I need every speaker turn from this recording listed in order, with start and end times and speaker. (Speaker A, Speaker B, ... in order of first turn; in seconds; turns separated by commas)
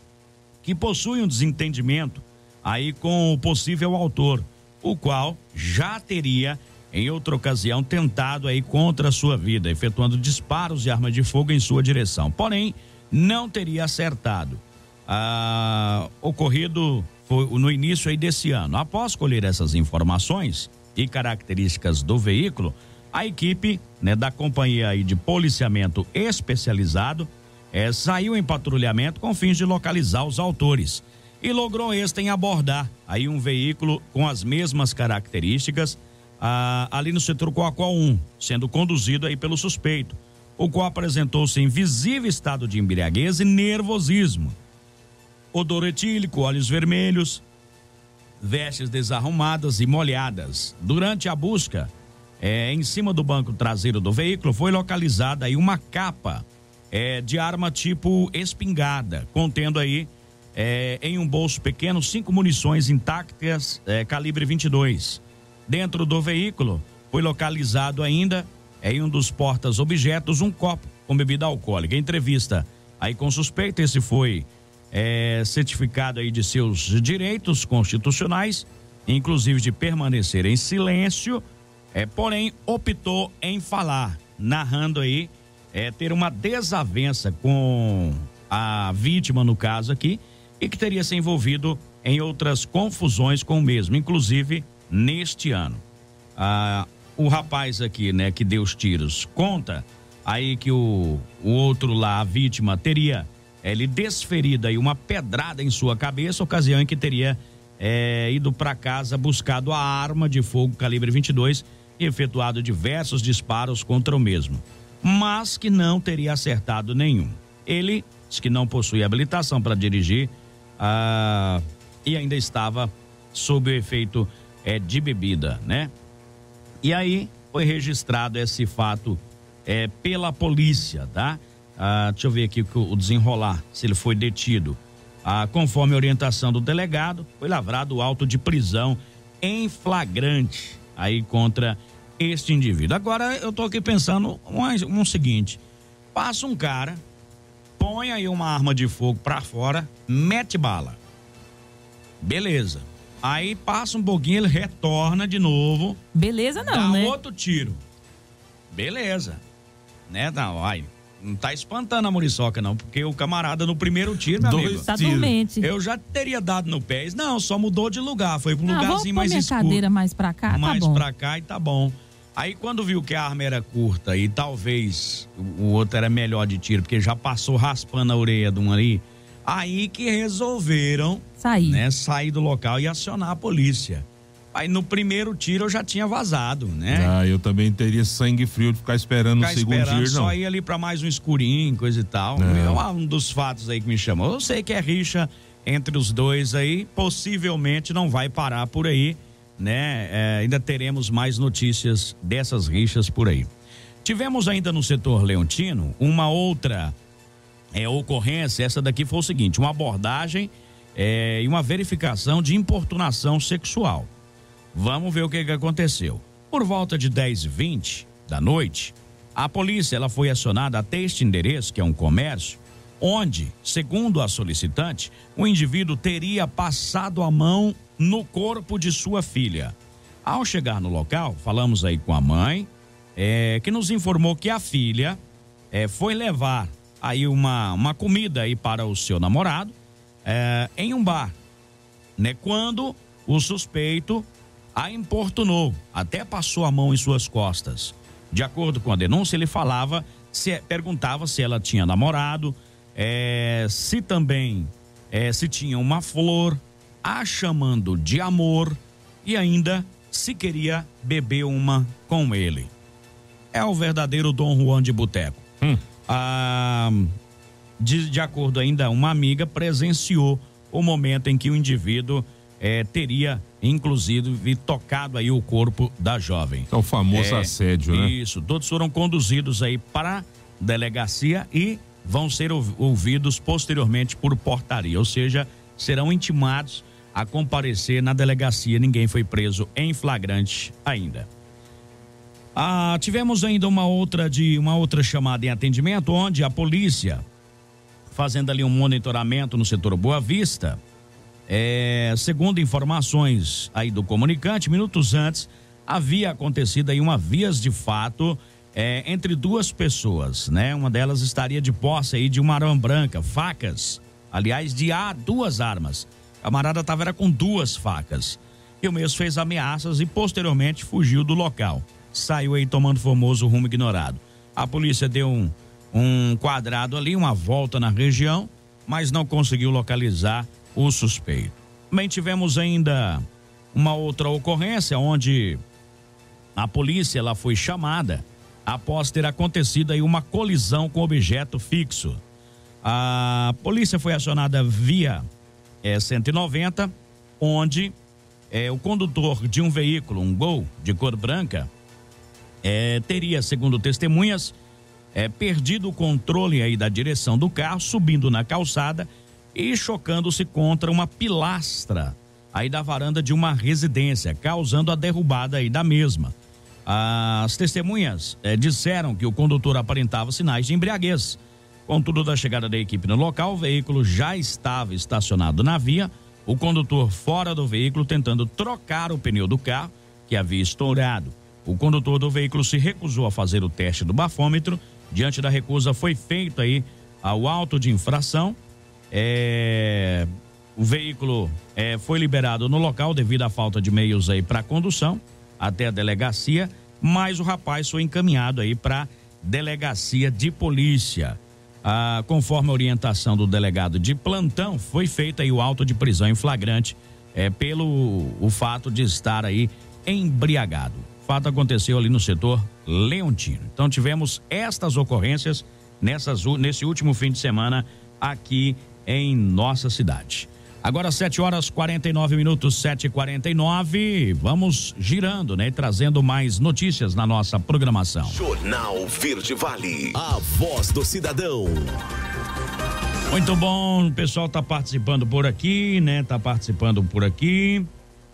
Speaker A: 0.6-44.5, Speaker A: 45.5-47.4, Speaker A: 48.4-81.4, Speaker A: 81.9-95.8, Speaker A: 96.4-125.9, Speaker A: 126.8-145.6, Speaker A: 146.1-147.0, Speaker A: 147.8-151.0, Speaker A: 152.2-156.0, Speaker B: 156.1-157.2, Speaker A: 156.6-157.8, Speaker A: 158.7-159.4, Speaker A: 160.1-164.9, Speaker C: 164.3-165.3, Speaker B: 164.7-165.7, Speaker A: 165.6-169.8, Speaker B: 168.7-171.0, Speaker A: 170.5-187.1, Speaker B: 181.4-181.8, Speaker C: 186.9-190.3, Speaker A: 189.4-203.5, Speaker C: 192.4-192.8, Speaker A: 204.0-206.9, Speaker A: 207.7-214.1, Speaker A: 214.7-235.2, Speaker A: 235.7-239.7, Speaker A: 240.2-241.3, Speaker A: 242.2-262.7, Speaker A: 263.5-265.5, Speaker A: 266.1-267.1, Speaker A: 267.8-291.3, Speaker C: 276.7-278.1, Speaker A: 292.5-297.2, Speaker A: 298.1-300.8, Speaker A: 301.5-335.6, Speaker A: 336.6-342.2, Speaker A: 342.8-345.2, Speaker A: 345.8-347.9, Speaker A: 348.5-351.7, Speaker A: 352.6-354.5, Speaker A: 355.1-366.3, Speaker A: 366.9-388.6, Speaker A: 389.1-428.4, Speaker D: 428.2-432.0, Speaker A: 433.3-437.9